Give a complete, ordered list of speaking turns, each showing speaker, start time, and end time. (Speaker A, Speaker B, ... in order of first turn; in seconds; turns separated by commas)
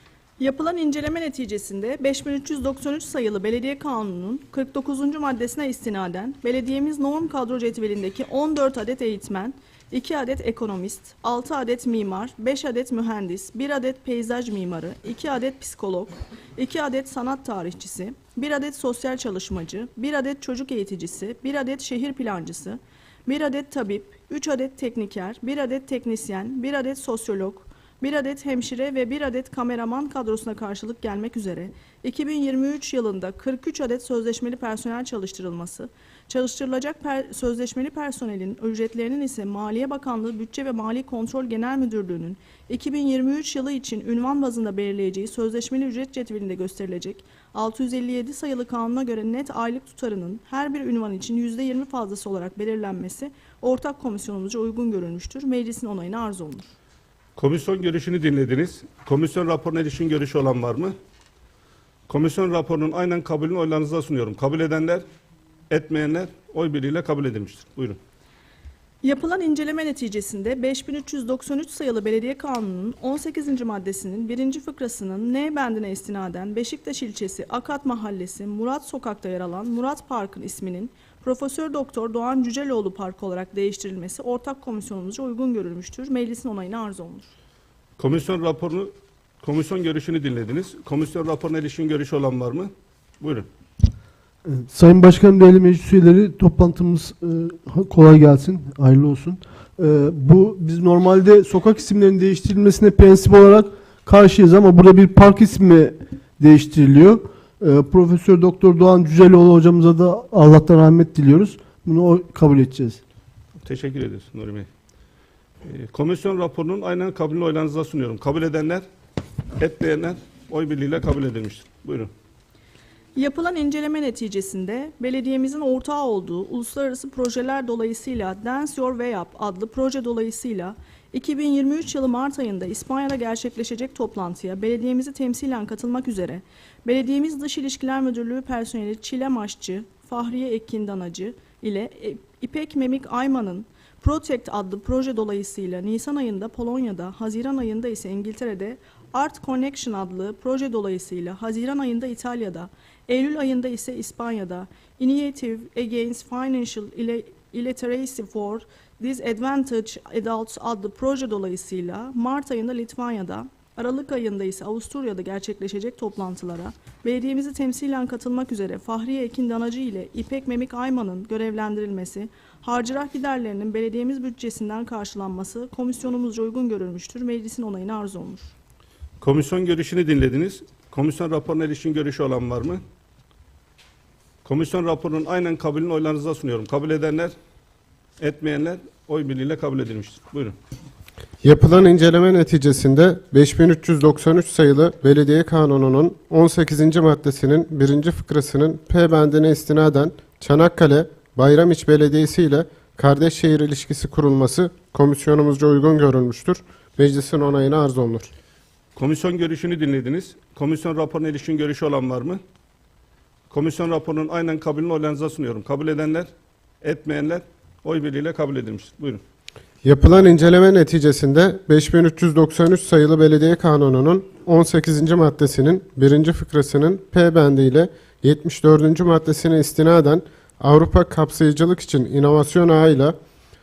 Speaker A: 0.4-56.7, Speaker B: 57.4-60.9, Speaker B: 62.1-65.0, Speaker B: 65.7-68.0, Speaker A: 69.0-87.3, Speaker B: 88.0-93.5, Speaker C: 94.5-113.0, Speaker B: 113.6-114.7, Speaker B: 115.7-118.8, Speaker B: 119.6-122.1, Speaker A: 123.2-178.5, Speaker B: 179.2-182.8, Speaker B: 184.4-187.3, Speaker B: 188.2-190.6, Speaker D: 191.4-208.3, Speaker B: 209.0-212.4, Speaker B: 213.5-216.3, Speaker B: 216.8-219.2, Speaker D: 219.8-233.2